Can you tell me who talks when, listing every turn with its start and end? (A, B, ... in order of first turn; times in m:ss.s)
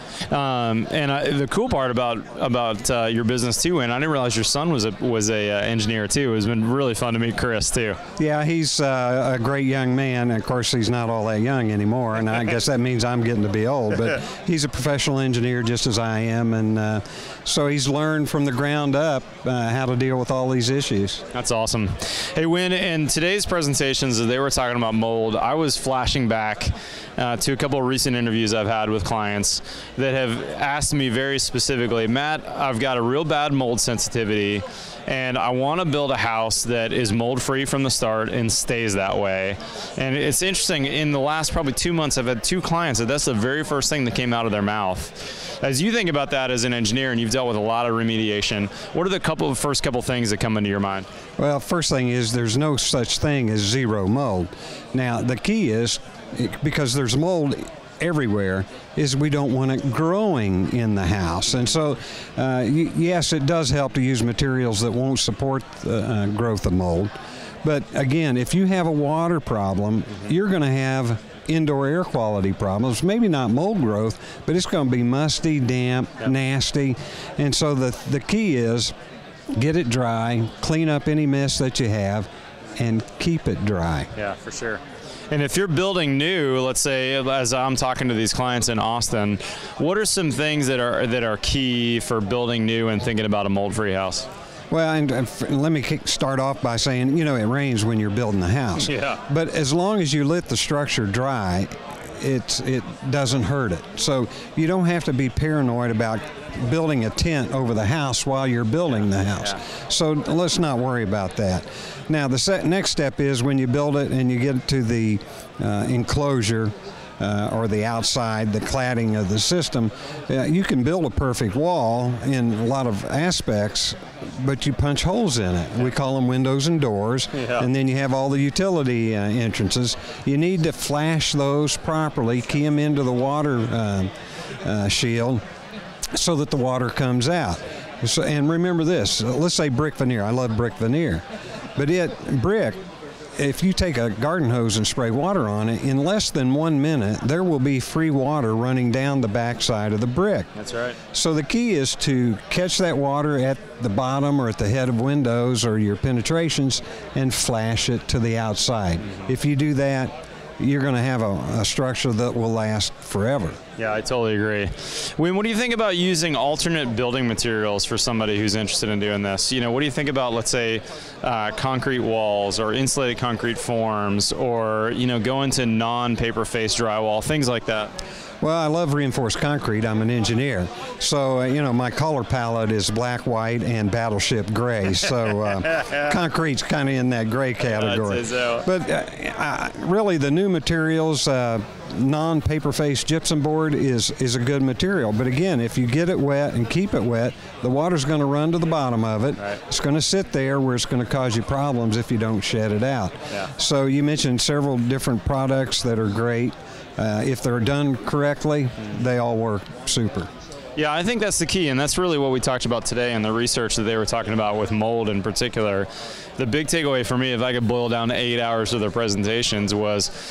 0:00.3-0:08.0 A
0:08.2-0:21.2 B
0:21.3-0:51.0 A
0:51.4-1:07.1 B
1:07.6-1:18.9 B
1:19.6-1:24.1 B
1:24.1-1:34.2 A
1:34.7-2:14.1 B
1:38.9-1:39.2 A
2:07.3-2:07.7 A
2:14.6-2:15.4 B
2:16.1-2:21.2 B
2:21.8-2:22.8 B
2:23.4-2:30.5 B
2:30.6-2:31.0 A
2:31.1-2:43.6 B
2:43.8-2:57.9 A
2:58.4-3:30.3 B
3:07.6-3:08.7 A
3:30.8-3:40.1 A